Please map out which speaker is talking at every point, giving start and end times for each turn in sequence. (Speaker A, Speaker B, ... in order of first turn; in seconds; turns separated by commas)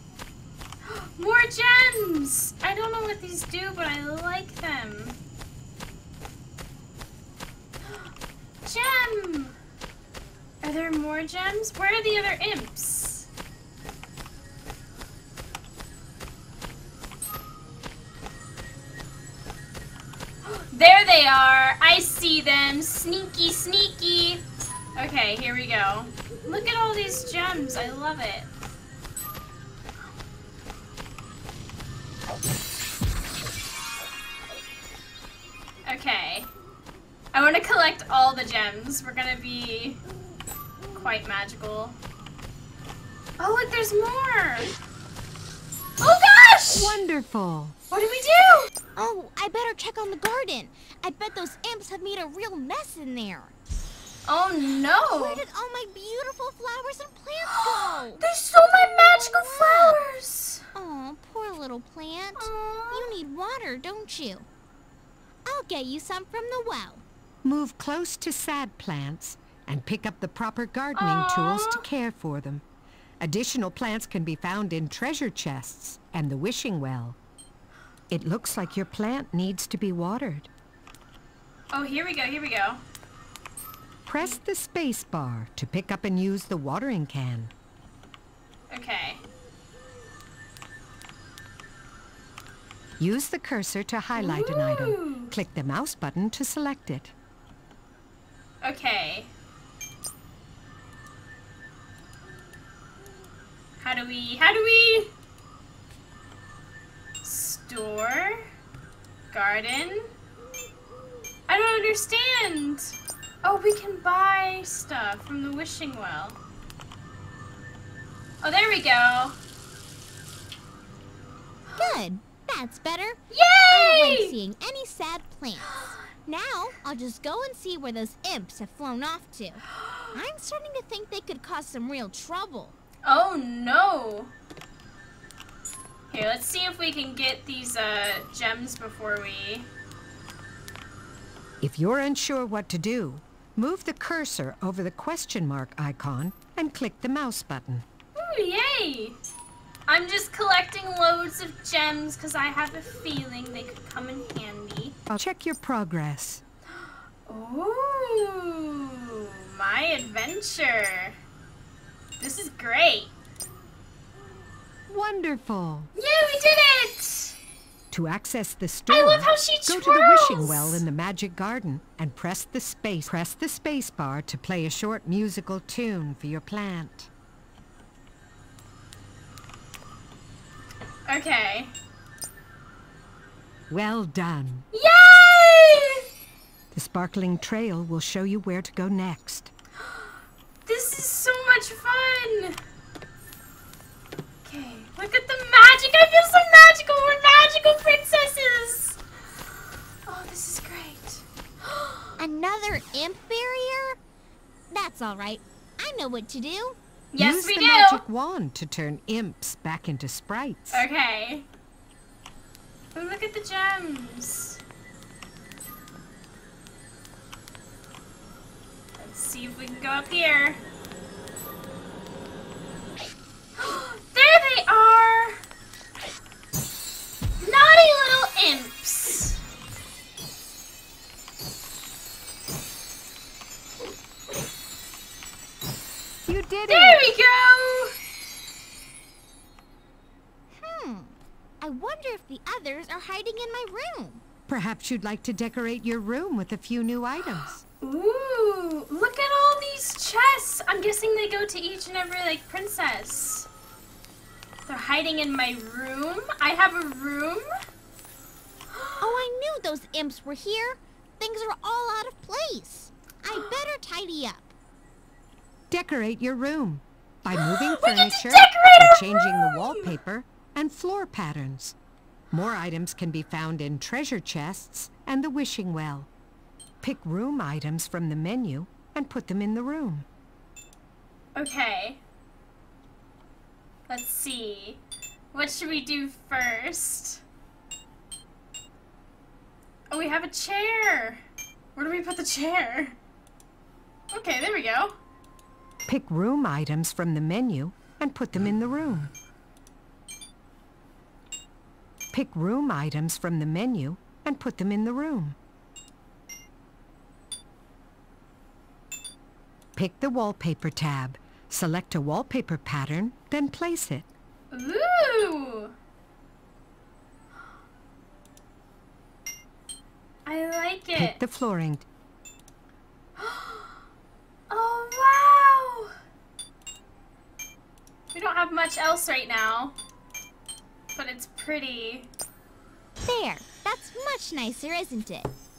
Speaker A: 0.8-5.2, Speaker A: 8.6-9.6, Speaker A: 10.6-13.3, Speaker A: 20.4-24.4, Speaker A: 24.9-28.5, Speaker A: 35.9-36.5, Speaker A: 37.3-40.0, Speaker A: 40.9-42.0, Speaker A: 43.4-44.7, Speaker A: 46.0-47.0, Speaker B: 46.7-47.8, Speaker A: 47.9-48.7, Speaker C: 49.0-53.5, Speaker A: 54.2-55.4, Speaker C: 55.0-60.0, Speaker A: 57.5-60.6, Speaker C: 60.7-64.5, Speaker A: 62.4-63.1, Speaker C: 65.4-67.0, Speaker B: 67.4-72.6, Speaker A: 70.9-71.8, Speaker B: 73.2-77.2, Speaker B: 78.1-80.5, Speaker A: 81.7-82.8, Speaker B: 84.0-87.5, Speaker A: 88.7-89.2, Speaker B: 93.0-97.1, Speaker A: 94.2-95.3, Speaker A: 98.6-99.3, Speaker A: 103.8-105.1, Speaker A: 107.2-108.4, Speaker A: 109.3-110.1, Speaker A: 111.5-116.4, Speaker A: 118.4-119.4, Speaker A: 121.7-122.0, Speaker C: 121.8-132.8, Speaker A: 123.3-124.3, Speaker A: 125.6-126.0, Speaker A: 129.8-130.1, Speaker A: 133.0-134.3, Speaker A: 136.1-139.7, Speaker B: 141.6-147.8, Speaker A: 148.2-149.2, Speaker A: 149.9-155.0, Speaker B: 155.1-156.4, Speaker A: 156.8-161.2, Speaker A: 162.2-163.1, Speaker B: 164.9-165.9, Speaker A: 165.9-167.4, Speaker B: 167.9-177.1, Speaker A: 168.9-170.8, Speaker A: 181.1-181.7, Speaker B: 183.7-184.7, Speaker A: 184.7-186.0, Speaker B: 186.7-189.5, Speaker A: 190.6-192.6, Speaker A: 194.4-199.0, Speaker A: 200.1-202.1, Speaker C: 202.2-204.0, Speaker C: 204.7-206.8, Speaker A: 207.1-208.0, Speaker B: 207.2-210.8, Speaker A: 210.7-211.4, Speaker A: 212.9-214.6, Speaker A: 219.0-220.6, Speaker A: 223.6-225.4, Speaker A: 227.4-229.4, Speaker B: 236.2-237.1, Speaker A: 236.7-237.9, Speaker C: 240.6-244.2, Speaker B: 244.5-247.6, Speaker A: 247.8-253.5, Speaker A: 254.7-257.5, Speaker C: 259.0-264.5, Speaker B: 265.7-271.8, Speaker A: 267.3-269.9, Speaker B: 272.3-276.1, Speaker B: 276.8-280.1, Speaker A: 281.3-282.0, Speaker A: 283.9-287.2, Speaker A: 289.9-291.2, Speaker A: 291.7-293.0, Speaker A: 294.1-294.9, Speaker B: 295.9-299.1, Speaker B: 302.1-305.4, Speaker B: 309.8-314.1, Speaker A: 314.5-315.7, Speaker A: 320.2-321.2, Speaker B: 320.9-321.9, Speaker A: 323.2-323.8, Speaker A: 324.5-325.9, Speaker A: 328.1-329.8, Speaker A: 330.9-332.1, Speaker C: 333.0-335.3